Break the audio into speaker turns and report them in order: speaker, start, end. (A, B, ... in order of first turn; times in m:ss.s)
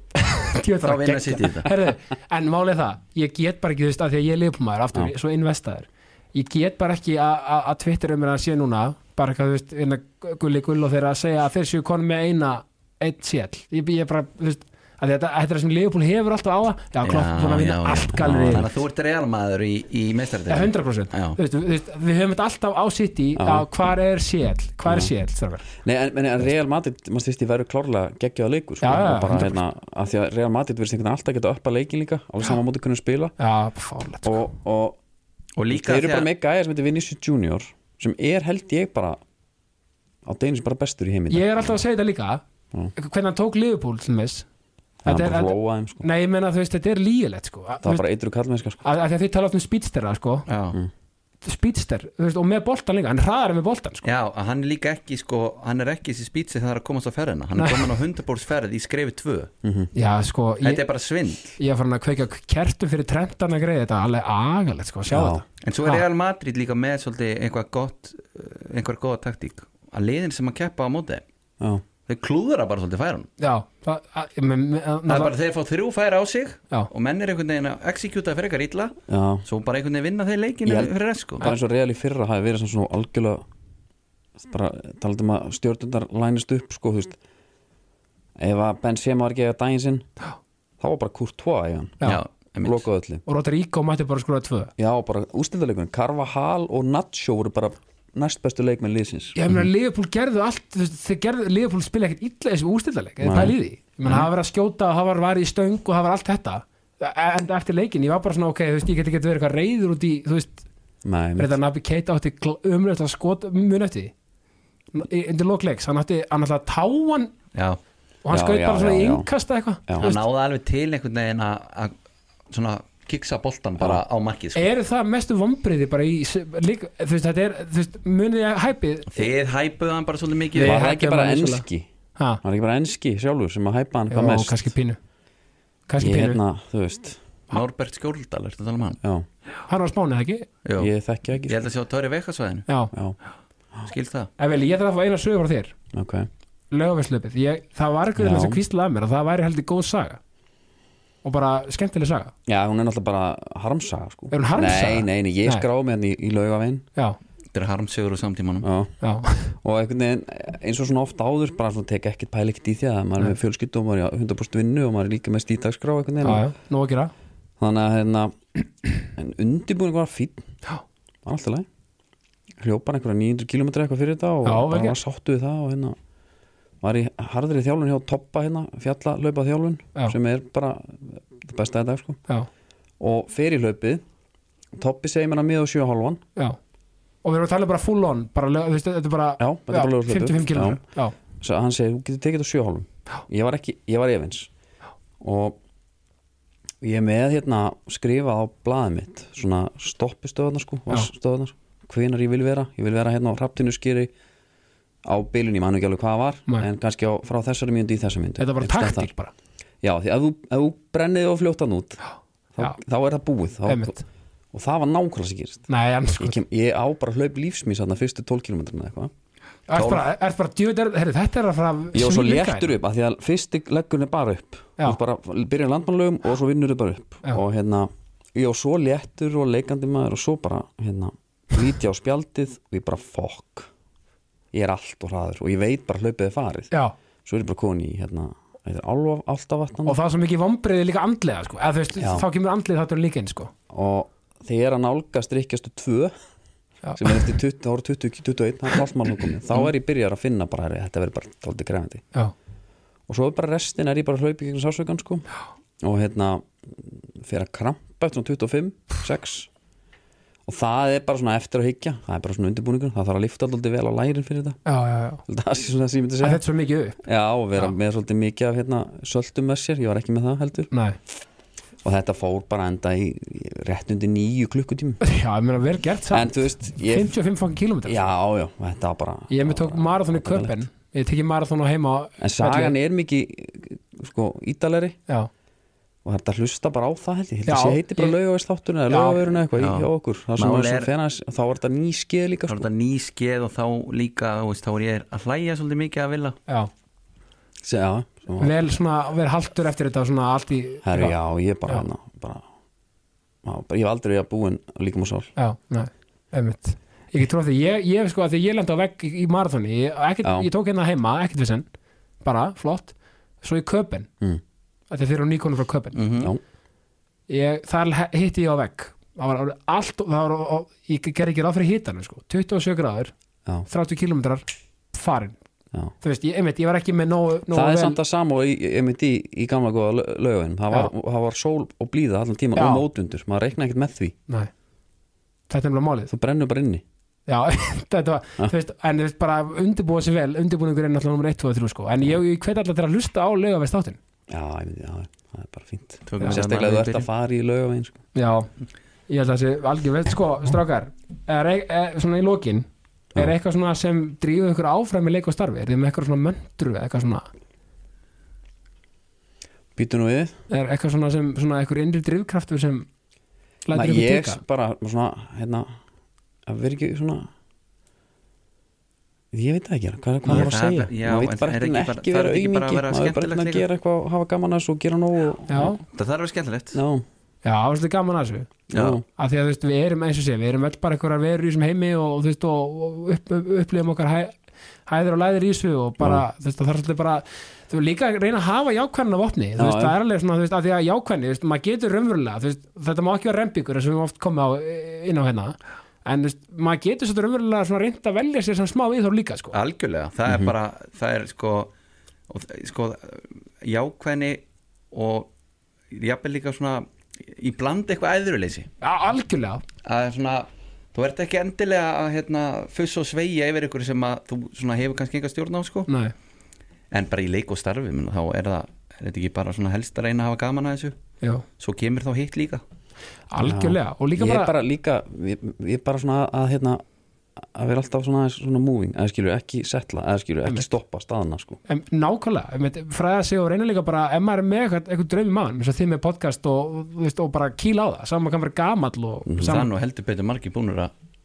0:00.2-0:18.6 A
0:00.8-0:01.7 B
0:17.0-0:21.4 B
0:18.2-0:18.7 C
0:20.5-0:25.6 A
0:23.4-0:23.7 C
0:25.8-0:33.4 C
0:28.8-0:29.6 A
0:33.4-0:34.4 A
0:34.2-0:35.0 C
0:35.6-0:36.3 B
0:35.7-0:39.2 C
0:40.2-0:41.8 C
0:41.3-0:42.4 A
0:43.0-0:44.4 A
0:45.0-0:46.0 C
0:45.0-0:48.0 A
0:47.8-0:48.8 C
0:48.8-0:50.4 A
0:50.5-0:50.8 B
0:51.4-0:54.1 A
0:54.0-0:59.5 B
0:57.6-0:57.9 A
0:59.6-0:59.9 C
0:59.9-1:00.8 A
1:00.6-1:01.5 B
1:01.6-1:06.0 A
1:05.1-1:05.4 C
1:05.6-1:11.2 B
1:12.1-1:13.3 B
1:13.4-1:15.3 A
1:15.1-1:21.4 B
1:19.1-1:19.4 C
1:20.6-1:23.4 C
1:24.4-1:27.2 C
1:28.4-1:30.0 C
1:30.8-1:32.1 C
1:32.0-1:32.8 B
1:32.6-1:33.2 C
1:33.2-1:34.7 A
1:34.8-1:39.4 C
1:39.3-1:50.6 A
1:43.2-1:43.5 C
1:51.0-1:51.5 C
1:51.4-1:54.1 A
1:54.9-1:57.3 A
1:57.5-1:57.8 B
1:58.2-2:00.2 A
1:58.3-1:59.3 C
1:59.9-2:00.1 C
2:00.0-2:02.0 B
2:02.5-2:04.6 B
2:04.5-2:09.3 A
2:09.1-2:10.8 B
2:10.6-2:11.6 A
2:10.6-2:11.9 C
2:12.4-2:14.7 C
2:14.1-2:15.0 A
2:15.9-2:16.4 A
2:16.0-2:17.2 C
2:17.5-2:19.0 B
2:19.7-2:20.5 A
2:20.6-2:20.9 B
2:20.8-2:21.6 C
2:21.5-2:22.7 B
2:22.7-2:22.9 A
2:23.9-2:24.3 B
2:24.4-2:25.7 A
2:25.9-2:26.3 C
2:26.7-2:30.2 A
2:28.2-2:28.6 C
2:31.2-2:32.3 A
2:32.4-2:36.8 C
2:34.3-2:35.6 A
2:37.5-2:38.7 B
2:38.6-2:38.9 C
2:39.0-2:39.6 A
2:39.6-2:46.5 C
2:46.2-2:47.1 A
2:47.6-2:48.4 C
2:49.0-2:50.4 C
2:51.2-2:51.7 C
2:52.6-2:56.0 C
2:54.4-2:55.0 A
2:56.8-3:02.2 C
3:03.0-3:04.0 C
3:04.8-3:06.2 C
3:07.2-3:11.1 A
3:09.4-3:10.8 C
3:11.4-3:14.5 C
3:15.2-3:15.6 C
3:16.8-3:24.1 C
3:25.0-3:29.1 C
3:28.4-3:29.3 A
3:29.8-3:32.0 C
3:32.5-3:33.9 C
3:33.6-3:34.0 A
3:34.5-3:39.1 C
3:35.7-3:36.4 A
3:39.7-3:42.8 A
3:39.7-3:40.0 B
3:41.9-3:53.7 C
3:54.5-3:56.7 C
3:57.2-4:00.0 C
3:59.8-4:03.5 A
4:02.0-4:02.2 C
4:03.7-4:06.1 C
4:06.8-4:07.2 A
4:07.0-4:12.0 C
4:13.1-4:15.3 C
4:15.8-4:19.5 C
4:20.4-4:24.6 C
4:24.6-4:25.2 A
4:25.3-4:26.4 C
4:26.2-4:27.0 A
4:27.0-4:30.7 C
4:30.7-4:31.0 A
4:31.8-4:35.0 C
4:35.0-4:38.1 A
4:36.1-4:37.2 C
4:37.8-4:40.6 C
4:39.3-4:42.7 A
4:42.2-4:45.0 C
4:46.0-4:52.6 C
4:47.5-4:48.2 A
4:48.9-4:49.3 A
4:49.6-4:50.9 B
4:52.5-4:56.4 B
4:57.6-4:58.5 C
4:58.4-5:01.1 A
5:00.8-5:02.4 C
5:03.4-5:05.3 C
5:05.4-5:11.6 A
5:10.2-5:10.5 C
5:12.2-5:14.1 A
5:14.9-5:16.0 A
5:15.9-5:16.3 B
5:17.3-5:23.1 A
5:23.7-5:25.4 A
5:26.0-5:28.0 A
5:27.5-5:34.1 C
5:32.5-5:32.8 A
5:35.5-5:36.1 A
5:36.1-5:36.8 C
5:37.3-5:44.0 A
5:44.3-5:48.0 C
5:46.1-5:47.1 B
5:48.1-5:48.5 A
5:49.1-5:57.3 A
5:59.8-6:00.3 C
6:00.5-6:02.8 A
6:03.6-6:04.4 A
6:03.7-6:05.7 C
6:06.4-6:07.3 C
6:09.3-6:15.8 C
6:10.2-6:10.9 A
6:10.3-6:13.6 B
6:15.5-6:15.8 A
6:15.9-6:16.8 B
6:16.7-6:17.0 C
6:17.4-6:18.5 A
6:18.7-6:19.0 C
6:18.7-6:19.0 B
6:19.2-6:24.3 A
6:24.9-6:39.6 A
6:29.6-6:30.0 C
6:39.5-6:41.7 B
6:40.3-6:40.5 C
6:42.3-6:45.3 B
6:45.9-6:48.7 B
6:48.8-6:49.6 A
6:49.8-6:55.9 B
6:55.9-6:56.1 A
6:56.9-7:01.0 B
7:01.6-7:02.6 B
7:03.3-7:04.5 A
7:03.4-7:06.8 C
7:07.4-7:11.6 C
7:11.7-7:19.7 A
7:19.2-7:19.5 C
7:19.4-7:20.9 B